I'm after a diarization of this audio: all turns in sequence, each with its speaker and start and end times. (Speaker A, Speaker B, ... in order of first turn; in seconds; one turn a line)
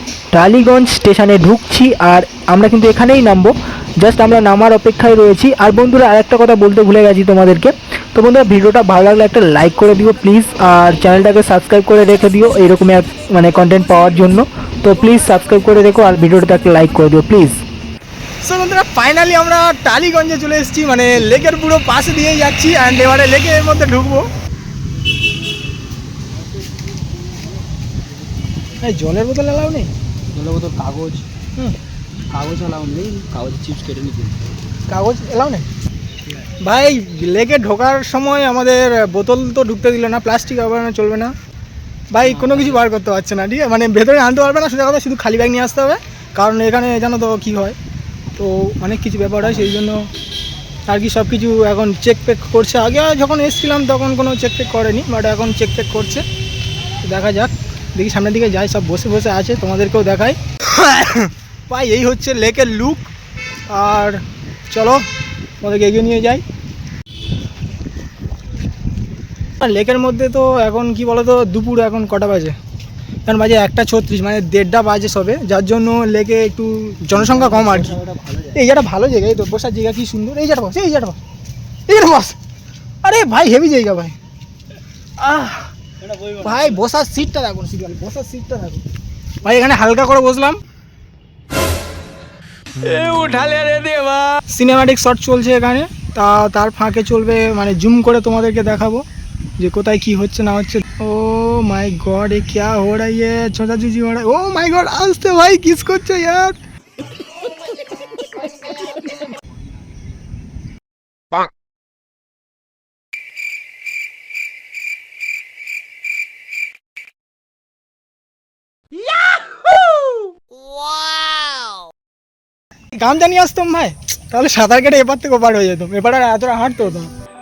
Speaker A: 0.3-17.6
Speaker B: 18.4-24.3
Speaker C: 26.5-27.4
Speaker B: 28.8-29.9
Speaker C: 30.3-31.3
Speaker C: 32.3-34.4
Speaker B: 34.9-35.7
Speaker B: 36.6-41.3
Speaker B: 42.1-47.8
Speaker C: 42.4-42.7
Speaker B: 48.4-50.0
Speaker B: 50.9-56.2
Speaker B: 57.0-63.1
Speaker B: 63.7-65.0
Speaker B: 65.6-66.4
Speaker B: 69.6-72.6
Speaker B: 73.3-81.2
Speaker C: 77.3-78.5
Speaker B: 81.9-82.4
Speaker B: 83.0-84.2
Speaker B: 85.2-85.7
Speaker B: 86.2-88.8
Speaker B: 89.4-90.6
Speaker C: 92.8-93.9
Speaker B: 93.4-99.0
Speaker B: 99.6-106.6
Speaker B: 123.0-127.1